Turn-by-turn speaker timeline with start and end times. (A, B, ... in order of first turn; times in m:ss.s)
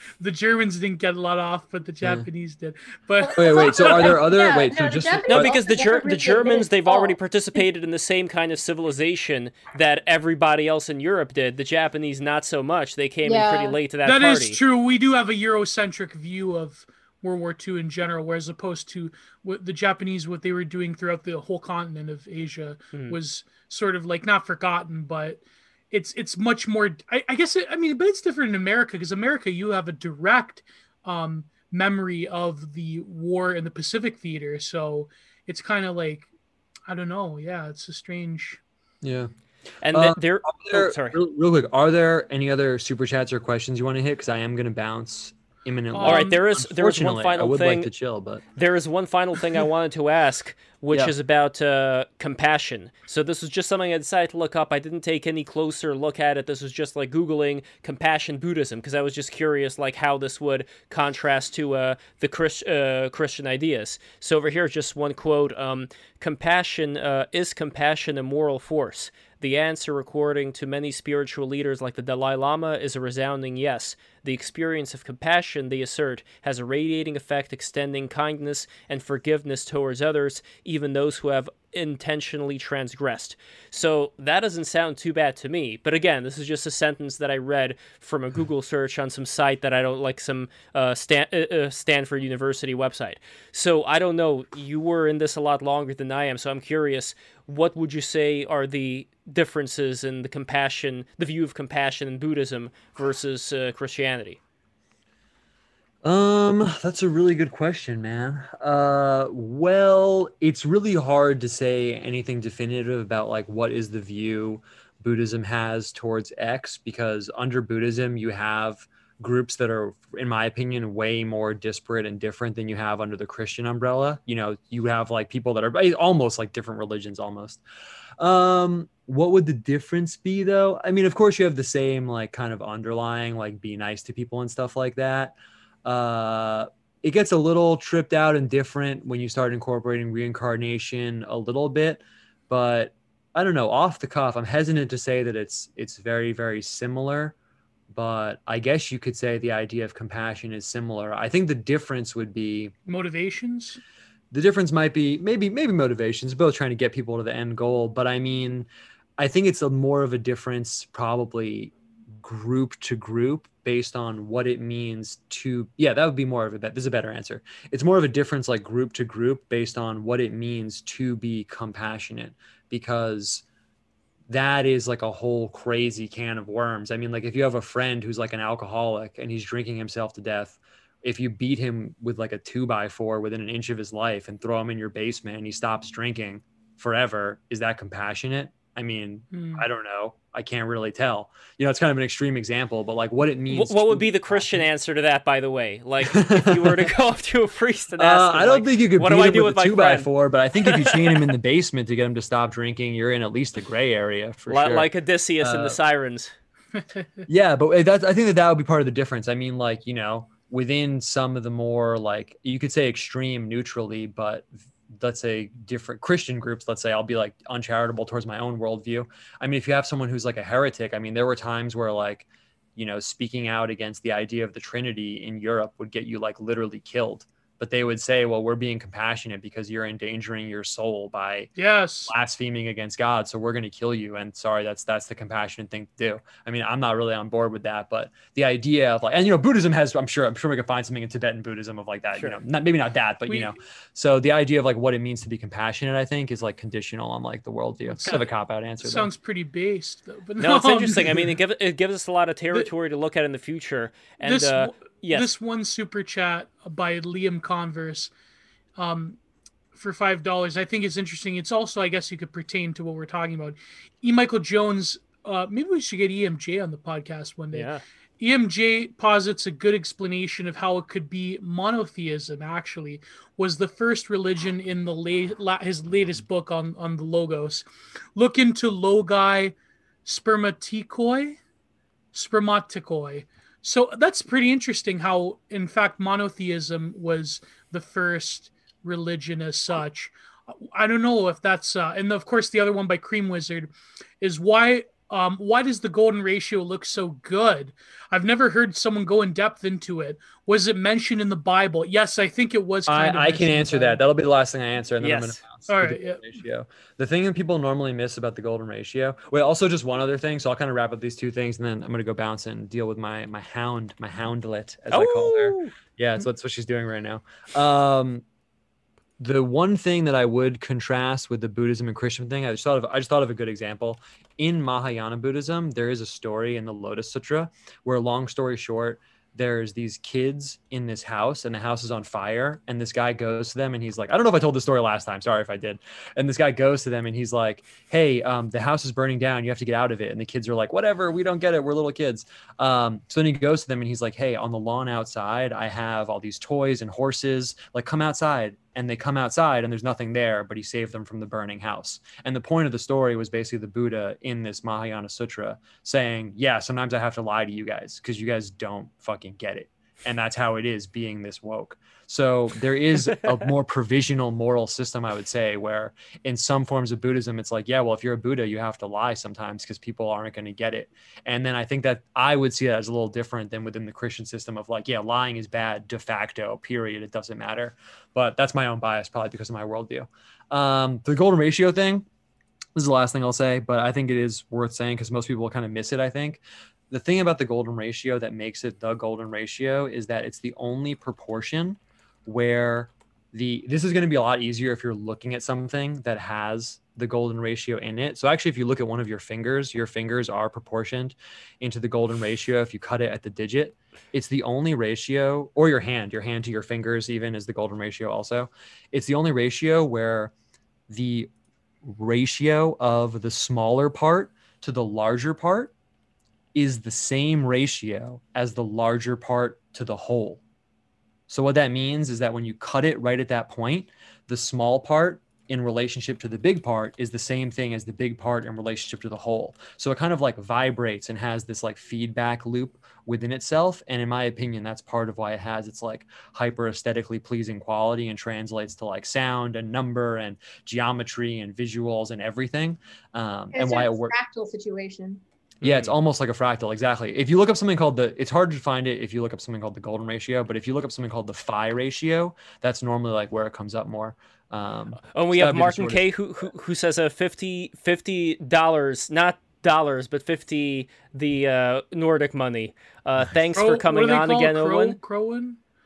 0:00.2-0:04.2 A
0:02.0-0:02.3 B
0:03.2-0:07.7 C
0:03.4-0:05.5 B
0:05.3-0:14.6 D
0:13.2-0:13.8 C
0:14.0-0:36.3 A
0:36.9-0:38.6 A
0:39.0-0:39.3 B
0:39.8-0:41.2 D
0:39.9-0:48.4 B
0:45.9-0:46.4 A
0:46.0-0:47.9 D
0:48.6-1:44.4 D
1:46.0-2:07.6 B
2:08.2-2:27.4 B
2:27.9-2:32.7 B
2:32.9-2:33.8 A
2:34.3-2:53.4 B
2:54.3-3:14.6 B
3:09.3-3:09.7 A
3:13.5-3:20.1 D
3:16.1-3:16.9 B
3:18.0-3:24.9 B
3:20.6-3:21.3 D
3:24.5-3:26.3 D
3:25.4-3:25.8 B
3:27.3-3:51.5 B
3:51.6-3:52.1 A
3:52.1-4:09.1 B
4:03.3-4:03.5 A
4:08.0-4:08.2 A
4:08.8-4:11.4 A
4:10.4-4:15.3 D
4:14.2-4:18.1 A
4:18.8-4:19.2 A
4:19.7-4:41.4 A
4:27.5-4:27.8 D
4:42.1-5:04.0 A
5:02.9-5:18.2 B
5:05.0-5:05.4 D
5:05.7-5:06.2 A
5:14.9-5:15.7 D
5:19.2-6:22.1 B
6:22.8-6:50.3 B
6:50.9-6:51.3 B
6:51.8-6:55.7 B
6:56.6-7:00.4 B
7:01.3-7:24.1 B
7:23.5-7:25.2 C
7:25.6-7:25.9 D
7:25.6-7:36.0 B
7:35.1-7:45.0 D
7:43.6-7:45.6 A